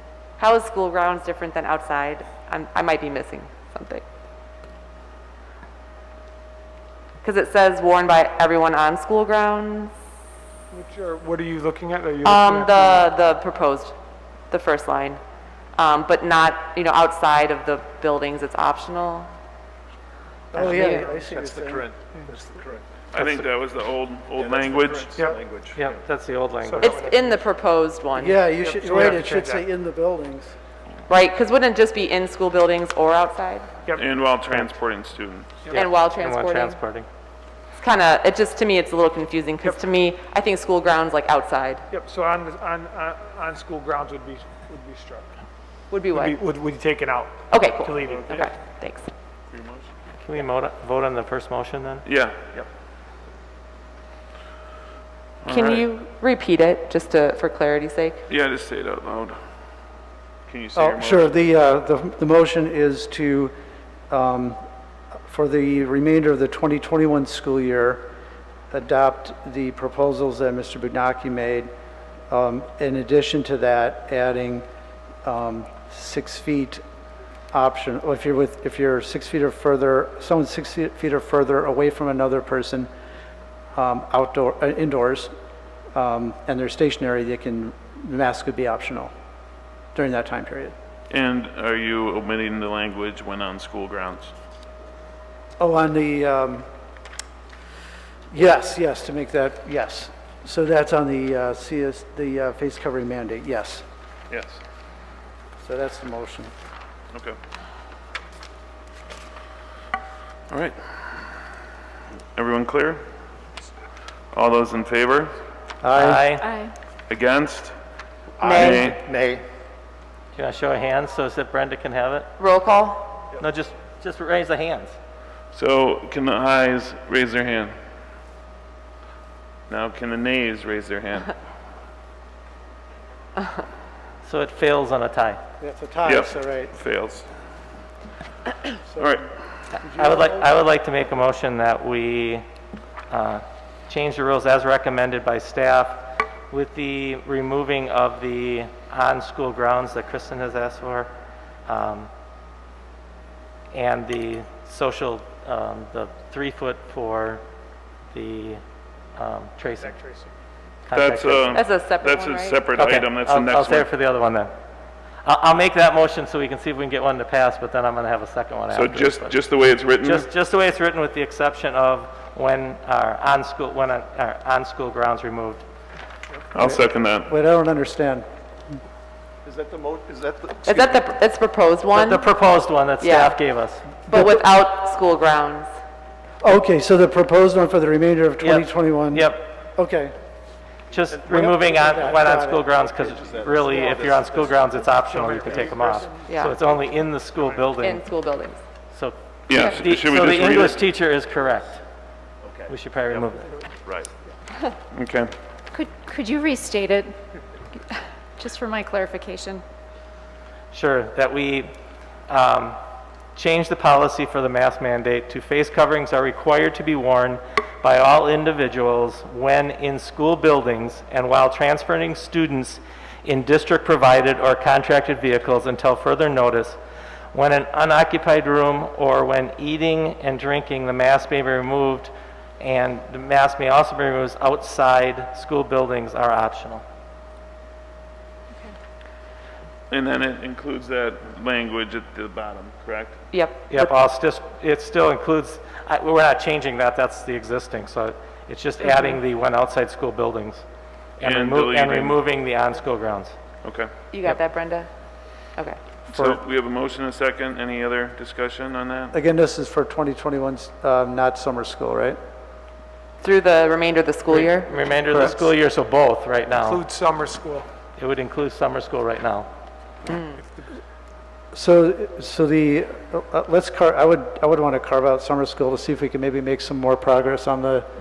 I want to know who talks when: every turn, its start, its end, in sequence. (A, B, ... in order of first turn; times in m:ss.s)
0:00.4-0:04.0 A
0:07.2-0:09.9 A
0:10.7-0:13.1 B
0:12.2-0:14.0 A
0:14.5-0:15.2 A
0:15.8-0:19.3 A
0:20.5-0:21.9 C
0:20.6-0:21.0 A
0:20.6-0:22.8 D
0:23.1-0:25.1 E
0:24.4-0:26.1 D
0:25.8-0:27.0 F
0:26.6-0:27.4 B
0:26.8-0:28.4 A
0:28.2-0:30.5 C
0:28.6-0:29.6 B
0:31.1-0:33.7 A
0:34.0-0:35.6 E
0:35.7-0:37.1 F
0:35.7-0:36.8 A
0:37.8-0:41.8 A
0:41.9-0:45.4 B
0:45.9-0:46.4 A
0:46.1-0:48.3 B
0:47.5-0:49.1 A
0:49.5-0:49.9 E
0:50.2-0:52.0 F
0:52.1-0:52.4 E
0:55.4-0:55.8 E
0:55.5-0:58.2 A
0:58.3-0:59.4 E
1:00.5-1:01.3 E
1:00.8-1:03.5 C
1:04.1-1:04.6 C
1:05.3-1:08.1 C
1:08.7-1:11.7 C
1:12.3-1:14.6 C
1:15.2-1:16.8 C
1:17.5-1:22.9 C
1:23.8-1:25.3 C
1:25.9-1:29.1 C
1:29.9-1:30.7 C
1:31.1-1:34.3 E
1:35.6-1:36.7 C
1:38.3-1:43.8 C
1:44.3-1:44.6 E
1:45.6-1:46.5 C
1:50.5-1:50.8 E
1:52.4-1:53.0 E
1:54.3-1:55.3 E
1:55.8-1:56.3 C
1:55.9-1:56.5 F
1:56.4-1:56.7 G
1:57.1-1:57.8 E
1:58.4-1:59.4 D
1:58.4-1:58.9 A
1:58.5-1:59.0 E
2:00.4-2:02.3 F
2:02.4-2:03.2 A
2:03.4-2:05.0 F
2:05.5-2:07.7 E
2:09.7-2:11.3 E
2:14.2-2:15.4 F
2:15.6-2:16.7 C
2:16.1-2:17.3 E
2:18.9-2:19.3 C
2:19.0-2:19.2 E
2:19.8-2:22.4 F
2:19.8-2:20.5 C
2:23.1-2:31.1 F
2:31.7-2:32.1 F
2:33.7-2:37.4 F
2:38.1-2:38.6 F
2:39.2-2:40.0 F
2:39.6-2:40.3 B
2:40.9-2:41.6 F
2:40.9-2:43.9 E
2:41.5-2:42.7 A
2:42.8-2:44.5 F
2:45.2-2:49.4 F
2:48.7-2:50.3 E
2:50.0-2:55.6 F
2:56.6-2:57.3 E
2:56.6-2:58.3 C
2:59.4-3:01.0 D
3:00.6-3:02.3 A
3:01.9-3:03.8 F
3:03.0-3:03.4 A
3:04.1-3:05.7 A
3:06.4-3:10.1 C
3:08.4-3:09.5 F
3:10.9-3:18.0 F
3:11.1-3:12.1 D
3:11.3-3:12.7 C
3:12.8-3:14.8 D
3:14.9-3:16.4 B
3:16.3-3:16.6 A
3:17.8-3:18.6 A
3:18.9-3:21.8 F
3:19.5-3:20.8 E
3:22.4-3:23.2 D
3:22.7-3:23.5 F
3:23.8-3:24.1 D
3:24.9-3:25.3 E
3:25.7-3:27.2 G
3:27.9-3:29.6 G
3:30.7-3:31.7 F
3:32.3-3:32.8 F
3:33.4-3:46.8 F
3:47.3-3:56.8 F
3:59.9-4:03.2 E
4:03.3-4:03.9 A
4:03.7-4:10.6 F
4:08.8-4:09.2 A
4:11.2-4:13.3 F
4:11.2-4:12.2 E
4:13.6-4:13.9 E
4:14.1-4:14.9 A
4:16.1-4:16.4 C
4:16.1-4:19.2 E
4:19.1-4:22.2 C
4:23.2-4:24.7 A
4:24.3-4:26.9 F
4:25.1-4:25.5 C
4:26.6-4:27.7 B
4:28.0-4:29.5 F
4:30.1-4:30.4 A
4:31.5-4:37.9 C